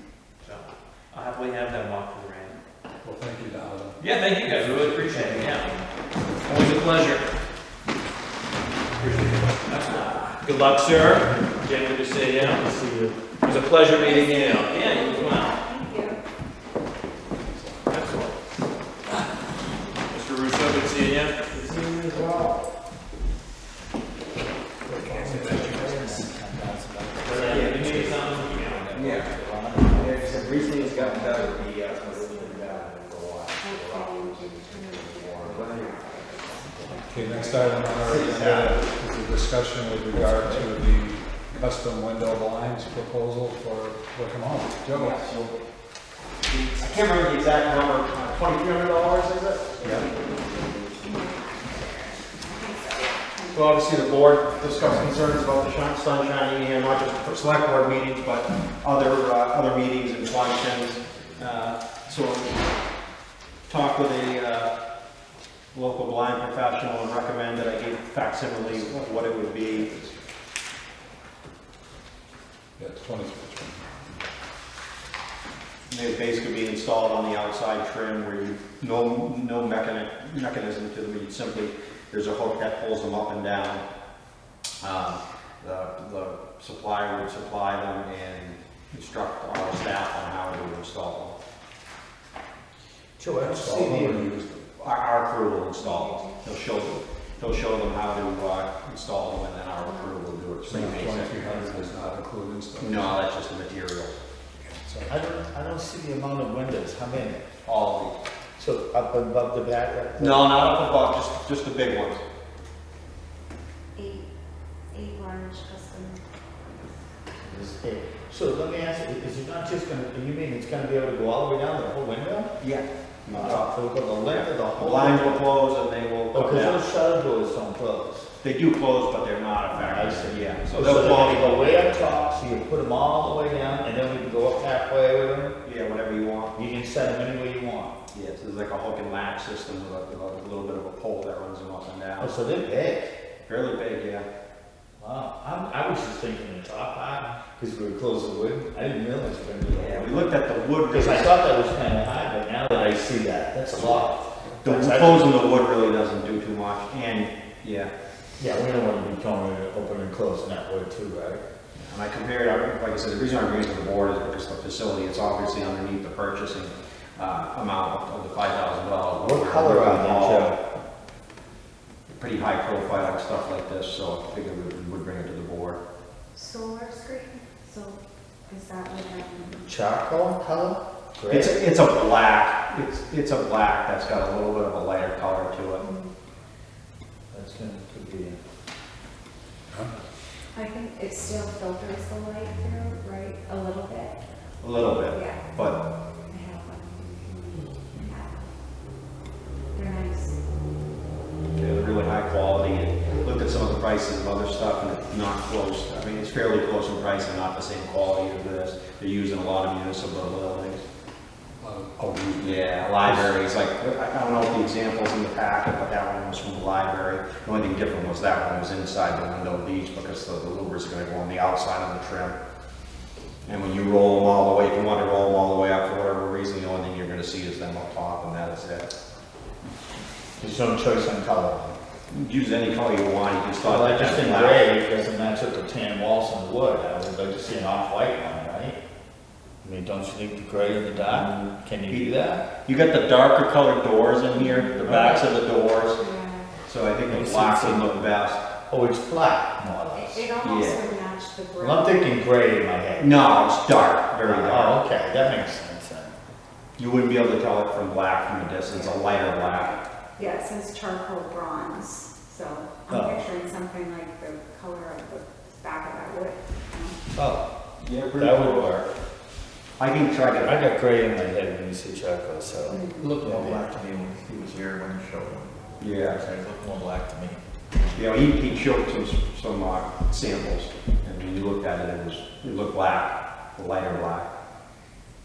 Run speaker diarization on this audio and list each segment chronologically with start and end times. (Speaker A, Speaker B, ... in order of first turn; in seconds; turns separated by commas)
Speaker A: 0.4-2.6, Speaker B: 3.0-5.5, Speaker A: 4.0-5.8, Speaker C: 5.0-5.9, Speaker A: 6.4-7.3, Speaker B: 9.0-9.6, Speaker A: 9.2-12.7, Speaker C: 12.3-13.2, Speaker A: 13.4-15.6, Speaker D: 13.9-16.2, Speaker B: 17.4-17.9, Speaker A: 17.9-18.4, Speaker A: 20.1-21.5, Speaker E: 21.5-22.6, Speaker C: 24.9-31.7, Speaker A: 25.1-25.9, Speaker A: 27.2-28.9, Speaker E: 27.4-27.9, Speaker E: 28.9-29.3, Speaker E: 29.9-36.0, Speaker D: 31.7-32.9, Speaker D: 33.6-37.7, Speaker B: 37.0-45.2, Speaker E: 37.3-38.7, Speaker C: 38.0-38.8, Speaker E: 44.9-45.6, Speaker E: 46.5-50.1, Speaker D: 49.8-53.9, Speaker E: 53.5-62.7, Speaker E: 63.7-64.7, Speaker E: 65.7-69.9, Speaker B: 68.7-70.2, Speaker B: 72.8-73.9, Speaker E: 75.9-83.8, Speaker E: 84.8-91.4, Speaker C: 93.2-94.3, Speaker B: 93.4-94.7, Speaker E: 94.8-101.8, Speaker D: 95.8-96.5, Speaker D: 99.8-100.3, Speaker B: 100.7-103.2, Speaker E: 102.8-104.2, Speaker B: 104.6-105.2, Speaker C: 105.1-107.5, Speaker E: 107.7-108.2, Speaker C: 108.6-110.7, Speaker E: 110.2-112.2, Speaker D: 114.0-114.3, Speaker D: 114.9-116.2, Speaker C: 117.4-122.5, Speaker E: 122.6-123.7, Speaker C: 123.3-125.5, Speaker E: 124.3-126.8, Speaker C: 126.3-128.3, Speaker E: 128.4-131.6, Speaker C: 129.8-135.6, Speaker E: 135.6-136.5, Speaker C: 136.5-137.9, Speaker E: 138.1-142.3, Speaker C: 142.2-143.1, Speaker E: 143.4-144.3, Speaker C: 145.0-150.3, Speaker E: 149.7-151.4, Speaker C: 150.9-155.3, Speaker E: 154.6-157.9, Speaker C: 158.4-161.4, Speaker E: 161.8-170.6, Speaker C: 169.2-170.6, Speaker E: 172.1-175.8, Speaker D: 176.3-179.7, Speaker C: 179.6-181.6, Speaker E: 181.3-185.8, Speaker D: 185.8-186.1, Speaker C: 187.3-188.4, Speaker D: 190.6-194.1, Speaker E: 194.6-195.8, Speaker D: 195.1-195.6, Speaker D: 196.3-198.5, Speaker D: 199.7-200.3, Speaker E: 201.6-210.8, Speaker B: 211.6-213.4, Speaker E: 212.4-222.4, Speaker E: 223.4-228.9, Speaker C: 230.4-231.8, Speaker E: 232.1-234.7, Speaker C: 233.6-238.8, Speaker C: 239.6-242.5, Speaker E: 241.1-242.1, Speaker E: 242.6-246.1, Speaker D: 244.4-244.9, Speaker C: 244.8-245.3, Speaker D: 246.0-246.6, Speaker E: 246.7-248.4, Speaker C: 247.1-248.0, Speaker C: 248.7-250.3, Speaker D: 249.9-252.1, Speaker E: 250.4-250.8, Speaker C: 251.6-253.2, Speaker E: 253.0-254.8, Speaker C: 254.2-256.2, Speaker E: 256.8-259.8, Speaker D: 258.6-267.0, Speaker C: 262.9-263.3, Speaker C: 267.1-267.4, Speaker E: 267.8-268.8, Speaker C: 268.2-268.9, Speaker E: 269.8-270.6, Speaker C: 270.4-273.8, Speaker F: 272.7-277.2, Speaker D: 272.7-273.1, Speaker E: 275.8-276.2, Speaker C: 276.6-277.4, Speaker E: 277.9-284.3